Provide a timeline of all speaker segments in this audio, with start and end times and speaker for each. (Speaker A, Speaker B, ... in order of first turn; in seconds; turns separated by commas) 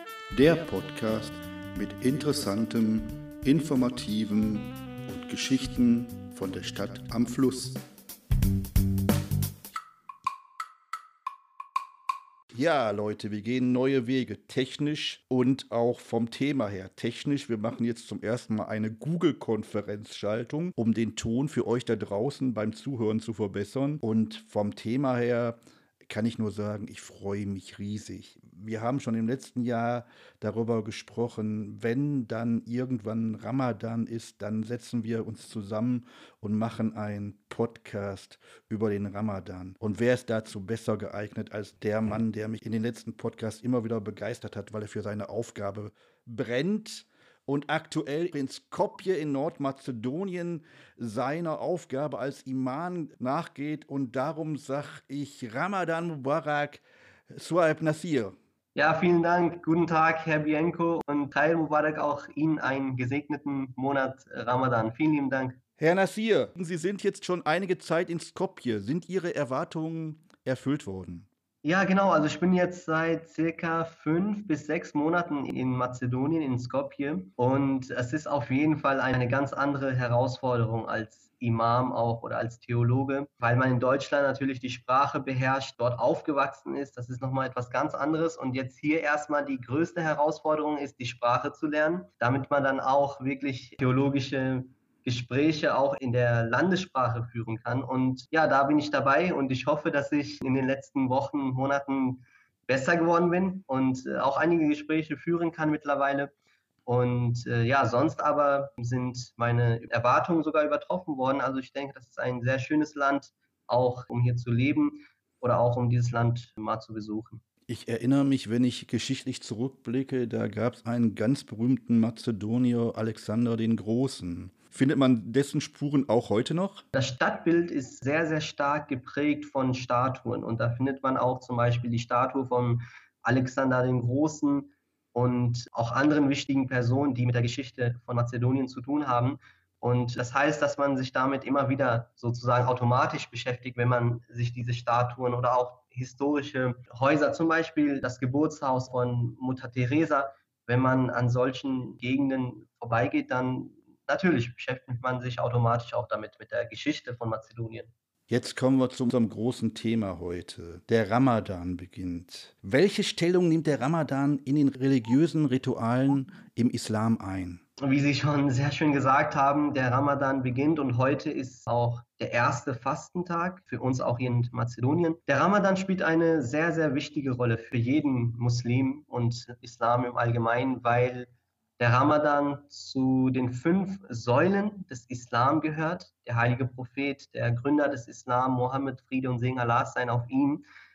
Speaker A: 0.3-7.8, Speaker A: 12.5-58.4, Speaker B: 58.8-65.6, Speaker A: 65.8-71.3, Speaker B: 71.6-106.3, Speaker B: 106.9-117.4, Speaker A: 117.7-126.8, Speaker B: 126.9-157.9, Speaker A: 158.3-167.6, Speaker B: 167.8-190.6